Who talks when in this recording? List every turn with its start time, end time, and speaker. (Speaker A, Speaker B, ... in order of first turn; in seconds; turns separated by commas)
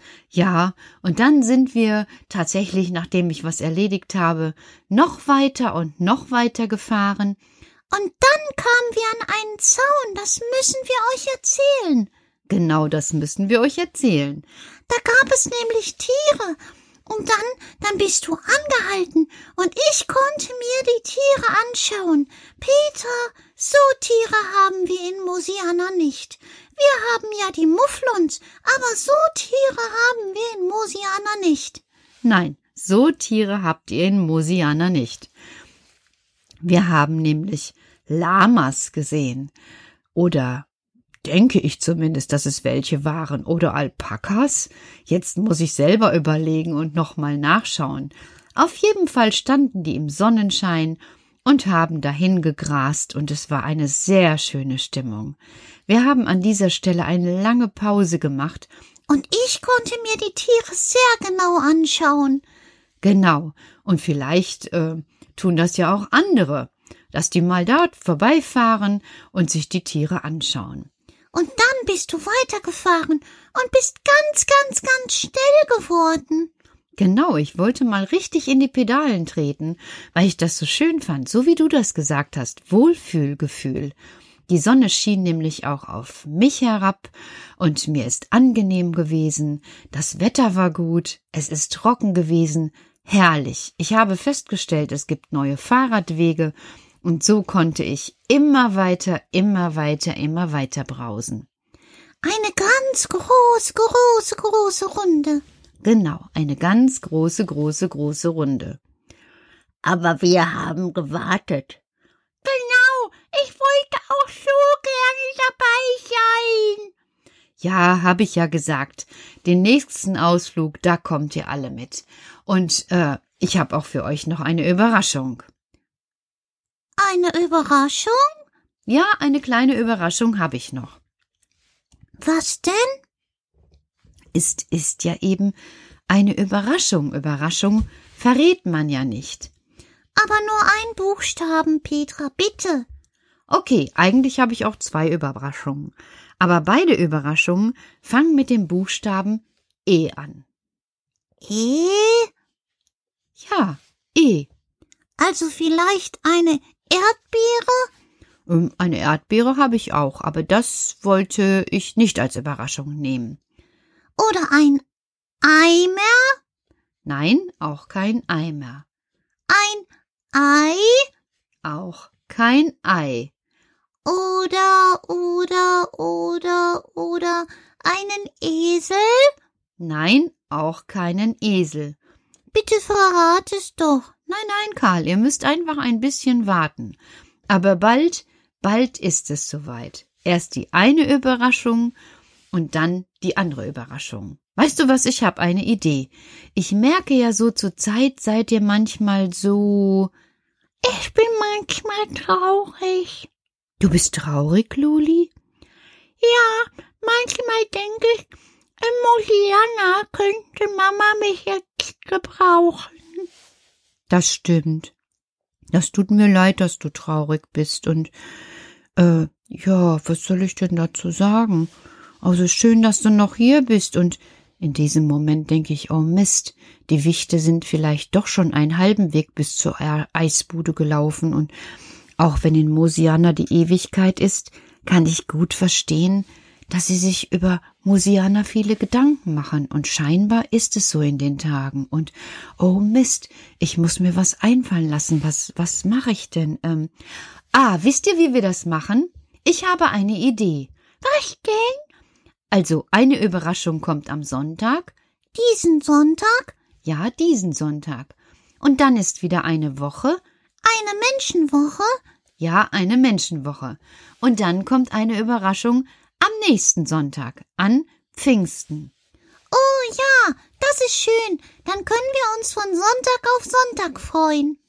Speaker A: 0.3-7.4, Speaker B: 7.9-12.1, Speaker A: 12.5-14.4, Speaker B: 14.9-31.8, Speaker A: 32.2-35.3, Speaker A: 36.6-39.5, Speaker A: 40.1-40.7, Speaker A: 41.2-58.7, Speaker B: 59.1-62.4, Speaker A: 63.0-70.9, Speaker B: 71.3-76.5, Speaker A: 77.0-83.9, Speaker A: 84.5-101.5, Speaker B: 102.2-105.4, Speaker A: 105.8-108.8, Speaker C: 109.8-111.8, Speaker B: 112.7-113.1, Speaker A: 117.6-125.5, Speaker B: 127.0-128.4, Speaker A: 128.9-131.0, Speaker B: 132.2-133.0, Speaker A: 134.3-135.6, Speaker A: 136.1-139.5, Speaker B: 140.2-142.9, Speaker A: 143.5-150.4, Speaker B: 151.4-152.3, Speaker A: 153.4-154.5, Speaker B: 155.2-157.9, Speaker A: 158.5-163.4, Speaker B: 164.2-164.8, Speaker B: 165.4-166.4, Speaker A: 167.1-168.8, Speaker B: 169.5-171.1, Speaker A: 171.6-173.3, Speaker B: 174.1-179.3, Speaker A: 179.8-182.0, Speaker B: 182.5-184.1, Speaker A: 184.3-191.9, Speaker A: 192.5-200.1, Speaker B: 200.8-203.3, Speaker A: 203.8-205.3, Speaker B: 206.2-208.2, Speaker B: 208.8-212.9, Speaker A: 214.1-214.9, Speaker A: 215.7-218.1, Speaker A: 219.0-221.7, Speaker A: 222.2-231.5, Speaker A: 232.2-246.9, Speaker A: 247.5-251.2, Speaker B: 251.2-251.8, Speaker A: 252.5-255.0, Speaker B: 255.3-256.6, Speaker A: 256.8-260.2, Speaker B: 260.6-262.0, Speaker A: 262.4-268.9, Speaker B: 269.5-274.6